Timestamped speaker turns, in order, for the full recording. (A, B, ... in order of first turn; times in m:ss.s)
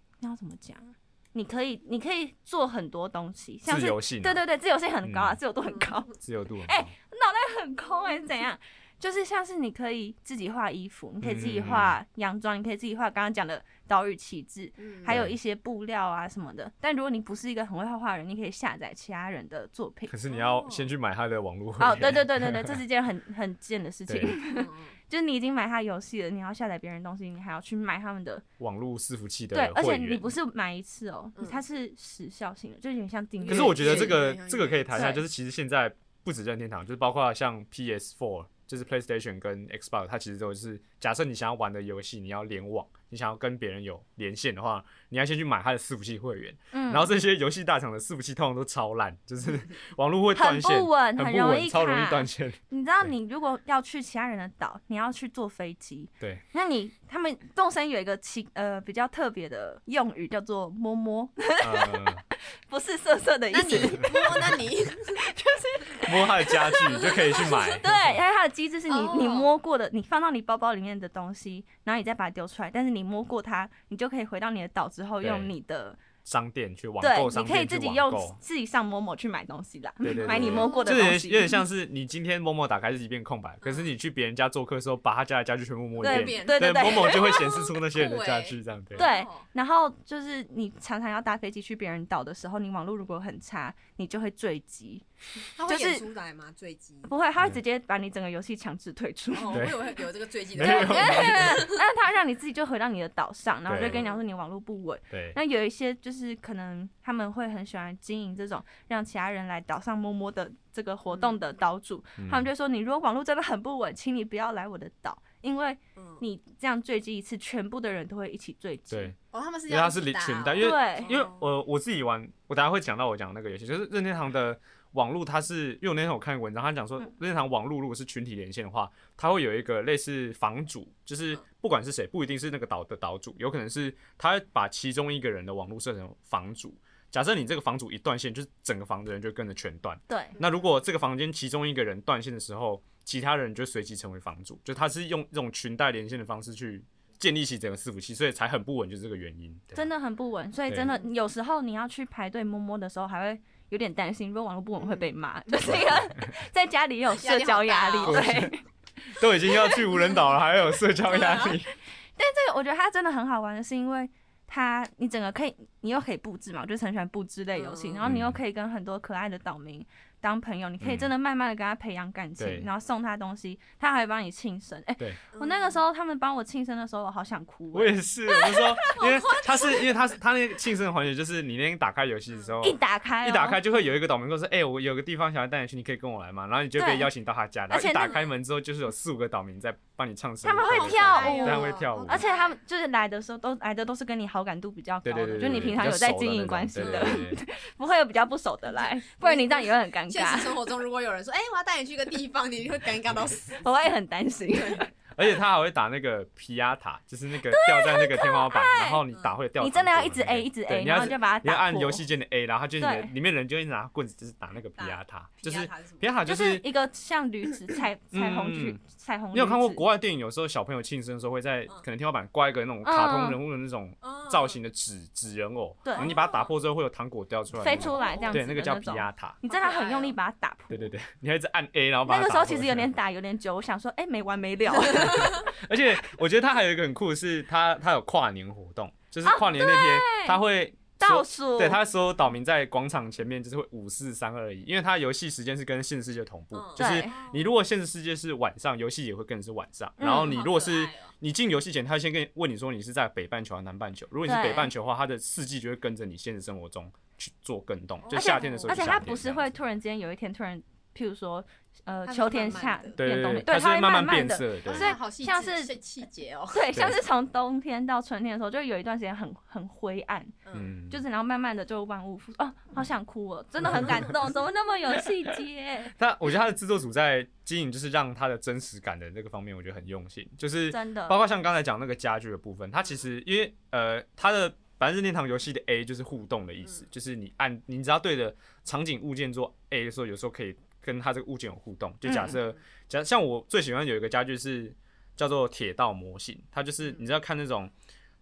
0:00.2-0:20.1 A
0:03.7-0:04.4 B
0:05.0-0:05.4 B
0:05.7-0:06.0 C
0:06.2-0:06.9 B
0:11.2-0:12.0 B
0:14.8-0:15.2 C
0:15.1-0:15.4 B
0:20.1-0:22.8 B
0:20.3-0:20.9 C
0:21.8-0:28.4 A
0:24.5-0:25.0 C
0:28.6-0:30.3 B
0:29.5-0:34.2 A
0:31.4-0:31.6 C
0:33.4-0:35.2 C
0:33.5-0:52.6 B
0:34.9-0:35.2 A
0:46.7-0:47.1 A
0:50.4-1:02.1 A
1:01.6-1:02.2 B
1:02.7-1:04.6 A
1:03.5-1:05.2 C
1:03.8-1:04.5 B
1:05.2-1:16.0 A
1:06.0-1:08.2 B
1:06.9-1:07.8 C
1:08.9-1:09.5 C
1:15.2-1:15.5 B
1:16.2-1:18.4 B
1:17.0-1:21.6 A
1:20.0-1:29.1 B
1:20.2-1:20.9 C
1:23.6-1:23.9 C
1:26.0-1:29.5 C
1:26.0-1:27.6 A
1:29.0-1:35.0 A
1:35.6-1:37.1 C
1:35.7-1:36.0 A
1:37.1-1:39.8 A
1:39.3-1:41.8 C
1:39.5-1:39.8 B
1:40.5-1:41.7 B
1:40.6-1:59.1 A
1:43.7-1:44.0 B
1:43.8-1:44.2 C
1:45.1-1:45.4 B
1:51.1-1:51.4 C
1:52.2-1:52.5 B
1:56.0-1:56.2 C
1:58.9-1:59.2 B
1:59.3-2:01.5 C
1:59.7-2:29.9 B
2:00.6-2:01.1 A
2:20.1-2:20.4 A
2:29.8-2:38.6 A
2:34.8-2:35.1 C
2:35.7-2:36.3 B
2:37.1-2:38.4 C
2:38.0-2:38.5 B
2:39.2-2:41.7 B
2:39.4-2:39.9 A
2:41.0-2:41.6 C
2:42.2-2:59.0 A
2:47.5-2:48.0 C
2:48.0-2:48.4 B
2:50.8-2:51.1 B
2:52.4-2:52.7 B
2:55.3-2:55.8 C
2:57.7-3:12.2 B
2:58.8-3:00.0 C
3:02.3-3:02.6 C
3:02.6-3:03.6 A
3:06.8-3:07.1 A
3:07.7-3:08.2 A
3:08.0-3:08.3 C
3:10.4-3:20.6 A
3:10.7-3:12.6 C
3:15.0-3:17.4 B
3:15.4-3:15.7 C
3:16.8-3:17.3 C
3:18.7-3:23.7 C
3:23.6-3:24.9 A
3:24.5-3:24.8 C
3:25.2-3:36.7 B
3:27.4-3:29.0 A
3:29.6-3:32.1 A
3:32.8-3:33.1 A
3:34.8-3:36.2 C
3:36.3-3:39.8 A
3:38.1-3:38.8 B
3:39.3-3:49.4 B
3:42.8-3:43.4 A
3:44.0-3:44.6 C
3:45.8-3:46.1 A
3:46.0-3:46.5 C
3:47.6-3:50.9 A
3:47.7-3:48.4 C
3:49.5-3:50.2 C
3:50.7-3:52.9 B
3:52.0-3:55.5 A
3:54.9-3:55.4 C
3:55.2-4:19.5 B
3:59.2-4:00.4 A
4:01.0-4:01.8 A
4:06.5-4:07.5 C
4:06.8-4:07.2 A
4:10.0-4:10.4 A
4:10.0-4:11.1 C
4:14.3-4:14.7 A
4:18.0-4:18.9 C
4:18.1-4:25.7 A
4:22.0-4:23.0 C
4:23.0-4:24.9 B
4:24.6-4:26.9 C
4:26.5-4:30.4 A
4:30.4-4:30.7 C
4:30.5-4:31.0 B
4:30.9-4:36.0 A
4:33.6-4:34.1 B
4:36.0-4:57.7 B
4:40.7-4:41.2 A
4:52.1-4:52.4 A
4:52.2-4:52.5 C